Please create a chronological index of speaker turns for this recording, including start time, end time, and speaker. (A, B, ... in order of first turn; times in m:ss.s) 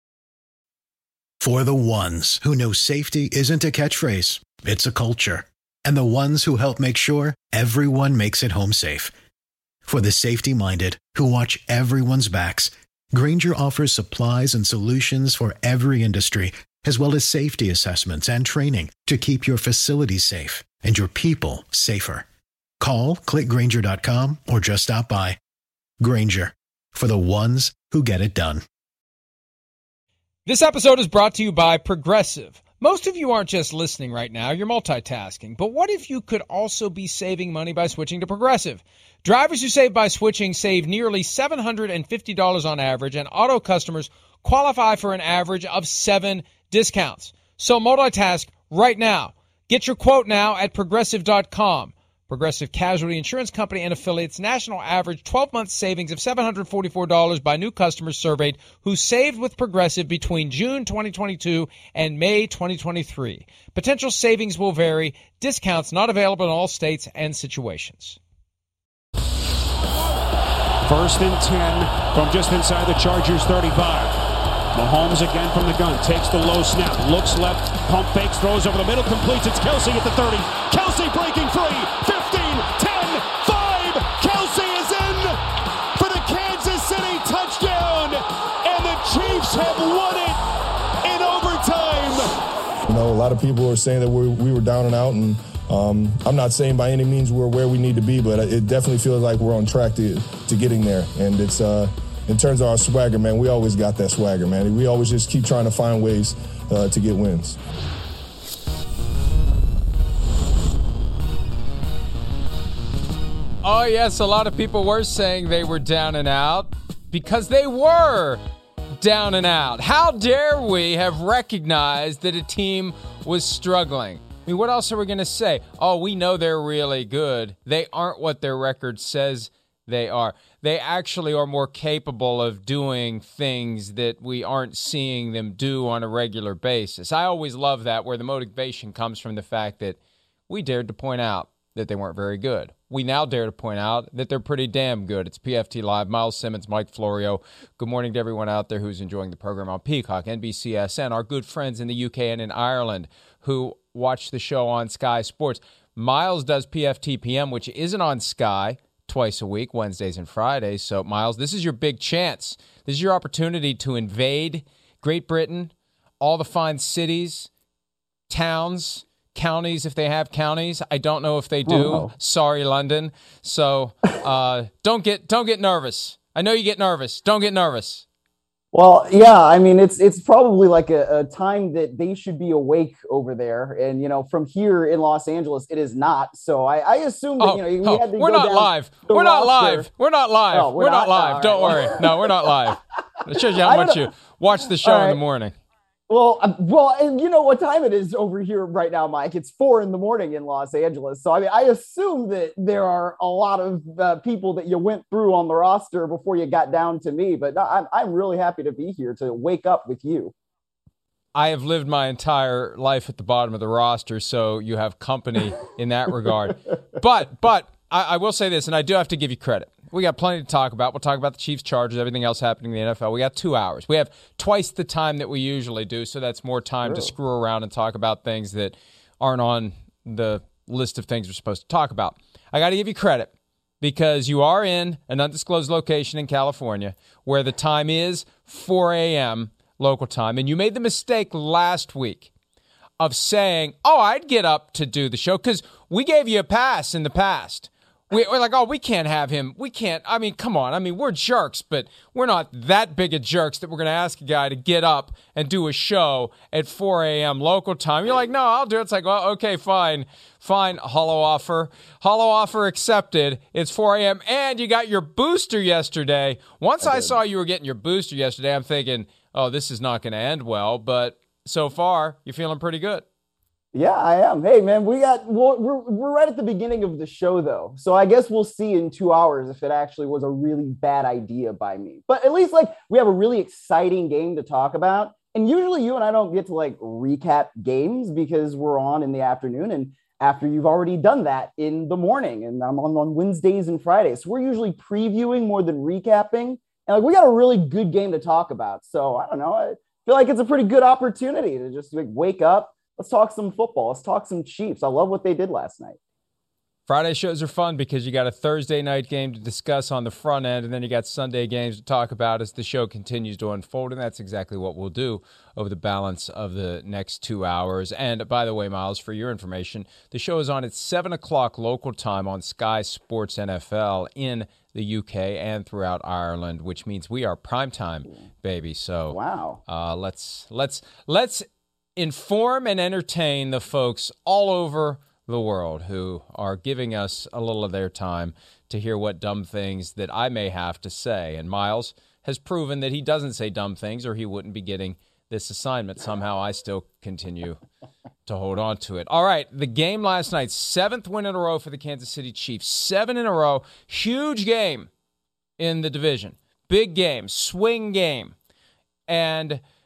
0:01.4-0:09.1 A
0:09.9-0:22.3 A
0:22.8-0:25.4 A
0:26.0-0:28.6 A
0:30.5-1:08.2 B
1:10.8-1:25.4 C
1:26.0-1:30.4 C
1:31.0-1:32.3 C
1:32.9-1:47.6 D
1:53.6-1:58.4 B
1:59.0-2:20.0 B
2:20.5-2:47.5 B
2:48.3-2:58.0 B
2:51.7-2:52.1 E
2:58.7-3:09.9 E
3:07.4-3:15.5 B
3:10.5-3:12.6 E
3:13.3-3:14.1 E
3:14.7-3:15.2 E
3:16.1-3:30.3 E
3:31.4-4:02.3 B
3:46.8-3:47.1 E
4:03.0-4:33.0 B
4:26.8-4:27.1 E
4:33.7-5:06.0 E
5:06.9-5:31.4 B
5:29.1-5:29.6 E
5:32.0-5:47.6 B
5:48.3-5:54.9 B
5:55.6-5:58.4 B
5:59.1-5:59.6 B